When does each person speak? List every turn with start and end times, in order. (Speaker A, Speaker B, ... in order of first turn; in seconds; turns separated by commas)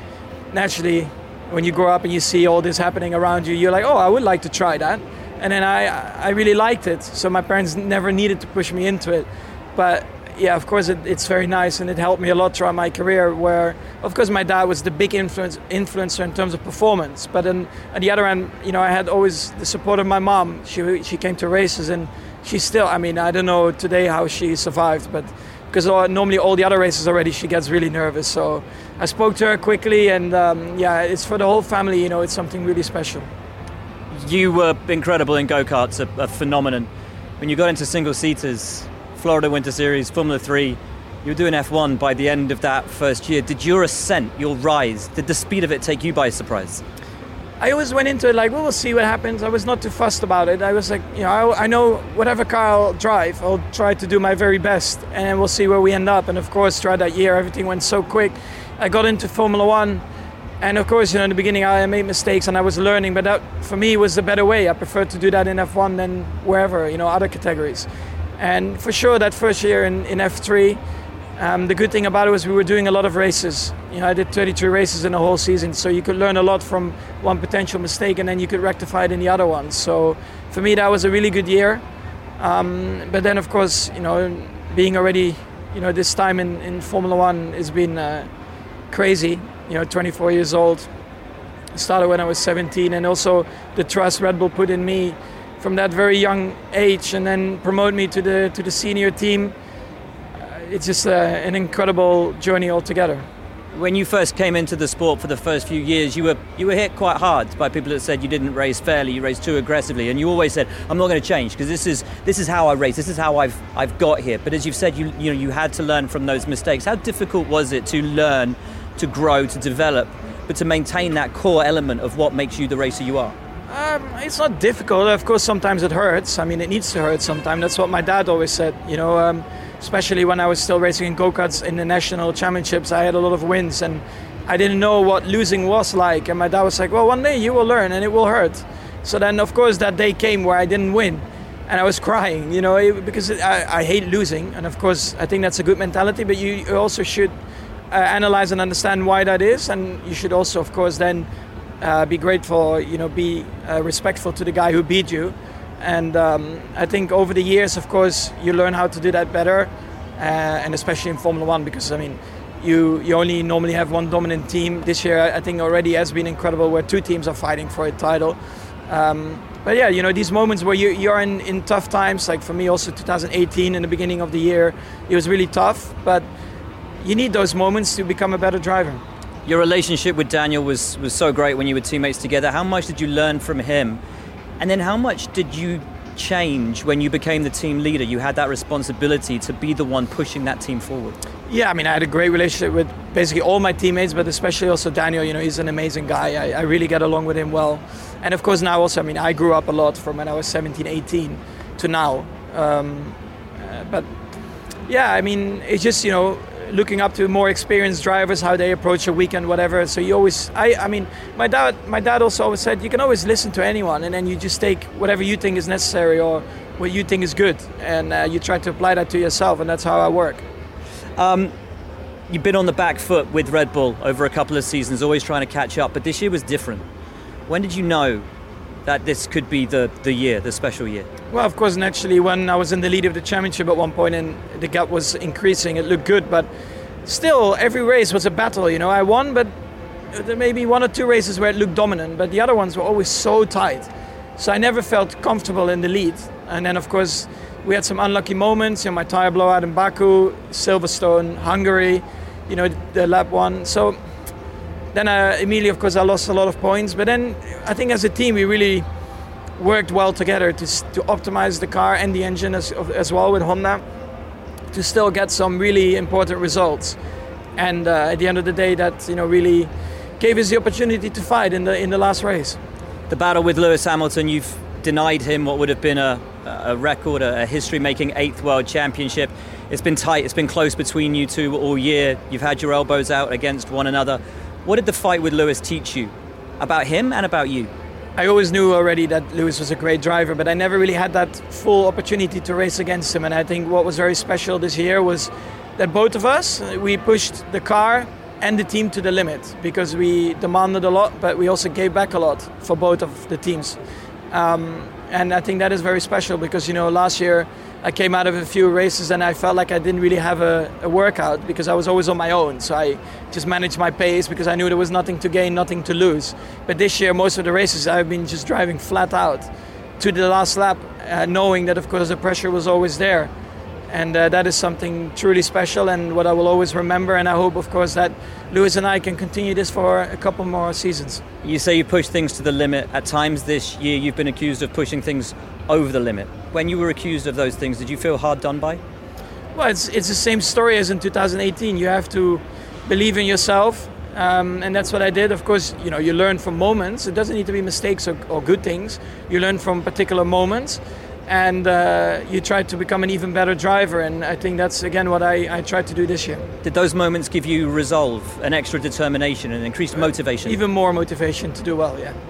Speaker A: 0.5-33.3, Speaker B: 34.1-46.8, Speaker A: 47.6-60.0, Speaker A: 60.6-70.8, Speaker A: 71.4-81.8, Speaker A: 82.4-88.3, Speaker A: 88.9-90.9, Speaker A: 91.7-99.5, Speaker A: 100.5-103.3, Speaker B: 103.7-123.3, Speaker A: 123.7-147.3, Speaker A: 147.9-151.3, Speaker A: 151.8-176.3, Speaker A: 177.0-179.0, Speaker B: 179.4-184.0, Speaker B: 184.6-191.2, Speaker A: 191.5-204.1, Speaker A: 204.9-220.4, Speaker B: 221.2-221.5, Speaker B: 222.3-226.8, Speaker B: 227.5-228.2, Speaker B: 228.8-231.1, Speaker A: 231.3-236.5, Speaker A: 237.0-239.5, Speaker A: 240.1-254.0, Speaker A: 254.9-258.9, Speaker A: 259.6-263.8, Speaker A: 264.7-267.0, Speaker A: 267.6-272.6, Speaker B: 273.1-287.7, Speaker A: 288.2-303.8, Speaker A: 304.3-323.3, Speaker A: 323.9-331.2, Speaker B: 331.4-338.8, Speaker A: 339.5-356.4, Speaker B: 356.6-360.6, Speaker A: 360.4-362.1